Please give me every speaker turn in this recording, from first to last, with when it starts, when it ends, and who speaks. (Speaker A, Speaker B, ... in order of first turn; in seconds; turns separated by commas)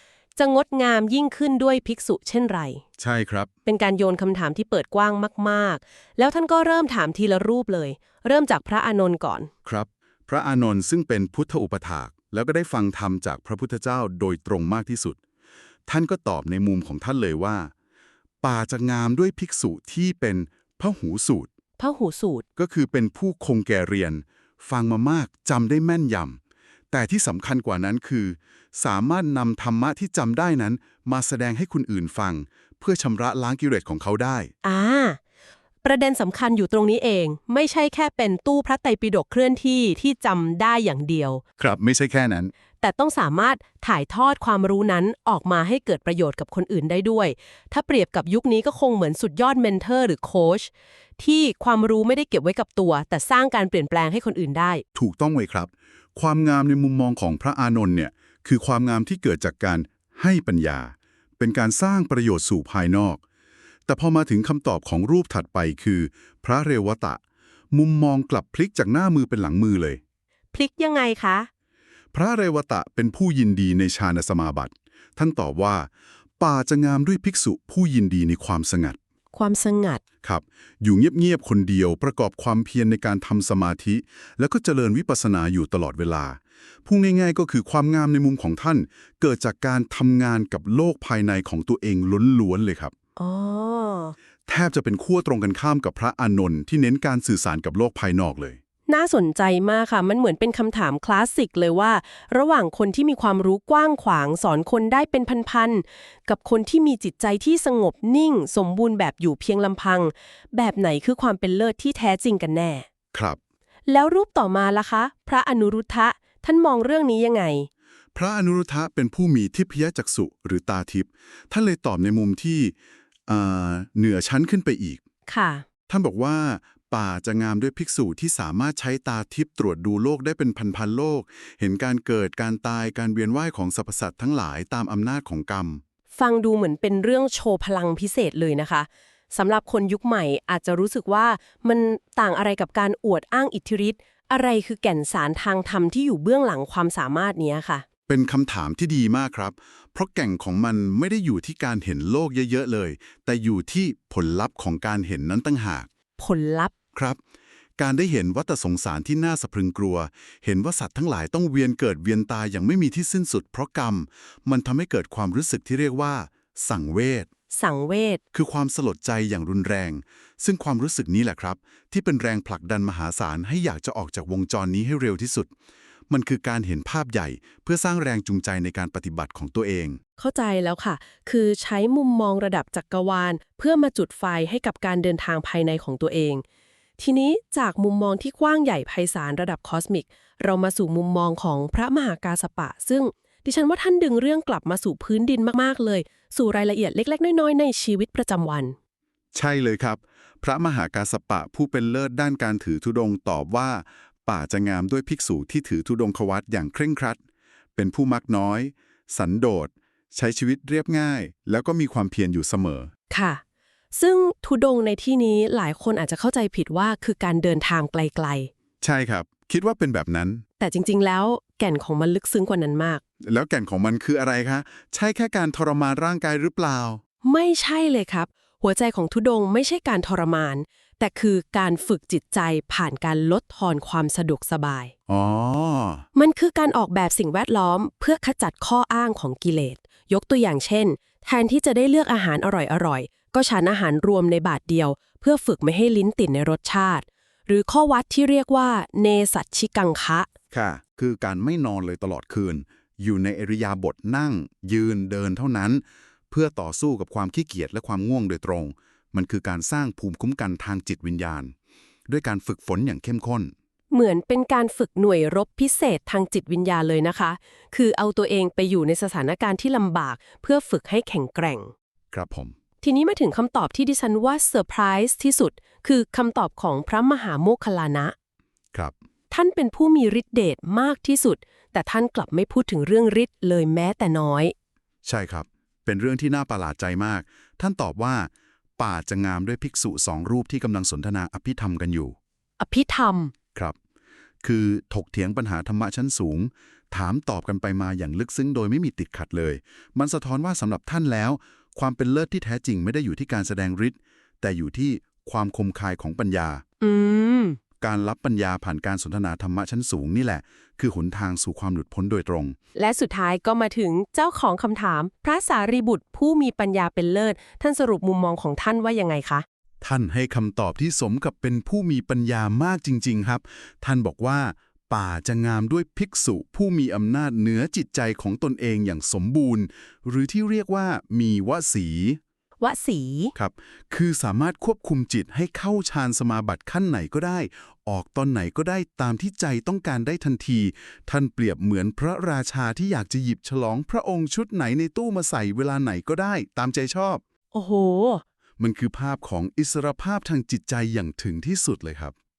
Speaker A: 0.4-2.8, Speaker B: 3.0-3.5, Speaker A: 3.6-9.5, Speaker B: 9.6-15.2, Speaker B: 15.9-17.7, Speaker B: 18.4-21.5, Speaker A: 21.8-22.4, Speaker B: 22.6-26.4, Speaker B: 26.9-34.5, Speaker A: 34.6-35.2, Speaker A: 35.8-41.4, Speaker B: 41.6-42.5, Speaker A: 42.8-54.8, Speaker B: 54.9-63.2, Speaker B: 63.9-67.2, Speaker B: 67.7-70.0, Speaker A: 70.5-71.5, Speaker B: 72.1-79.0, Speaker A: 79.3-80.0, Speaker B: 80.2-92.9, Speaker A: 93.2-94.1, Speaker B: 94.5-98.6, Speaker A: 98.9-112.9, Speaker B: 113.1-113.4, Speaker A: 113.9-117.7, Speaker B: 118.1-122.7, Speaker B: 123.3-125.0, Speaker A: 125.3-125.6, Speaker B: 125.9-135.8, Speaker A: 136.1-147.8, Speaker B: 148.1-155.9, Speaker A: 156.2-156.7, Speaker B: 157.8-167.3, Speaker A: 167.5-168.2, Speaker B: 168.3-175.5, Speaker B: 176.1-180.0, Speaker A: 180.2-186.4, Speaker A: 187.0-198.8, Speaker B: 199.3-207.2, Speaker B: 207.8-212.9, Speaker A: 213.1-213.4, Speaker A: 213.9-218.5, Speaker B: 218.8-220.4, Speaker A: 220.6-223.0, Speaker B: 223.2-227.0, Speaker A: 227.2-234.9, Speaker B: 235.1-236.0, Speaker A: 236.1-250.3, Speaker B: 250.5-261.5, Speaker B: 262.1-263.5, Speaker A: 263.9-271.7, Speaker B: 272.1-272.5, Speaker A: 272.8-278.1, Speaker A: 279.3-284.5, Speaker B: 285.0-292.1, Speaker A: 292.6-293.3, Speaker B: 294.4-306.6, Speaker A: 306.8-307.6, Speaker B: 307.8-312.6, Speaker A: 312.7-319.4, Speaker B: 319.8-332.2, Speaker A: 332.6-333.3, Speaker B: 333.3-347.2, Speaker A: 347.5-348.2, Speaker B: 348.6-352.1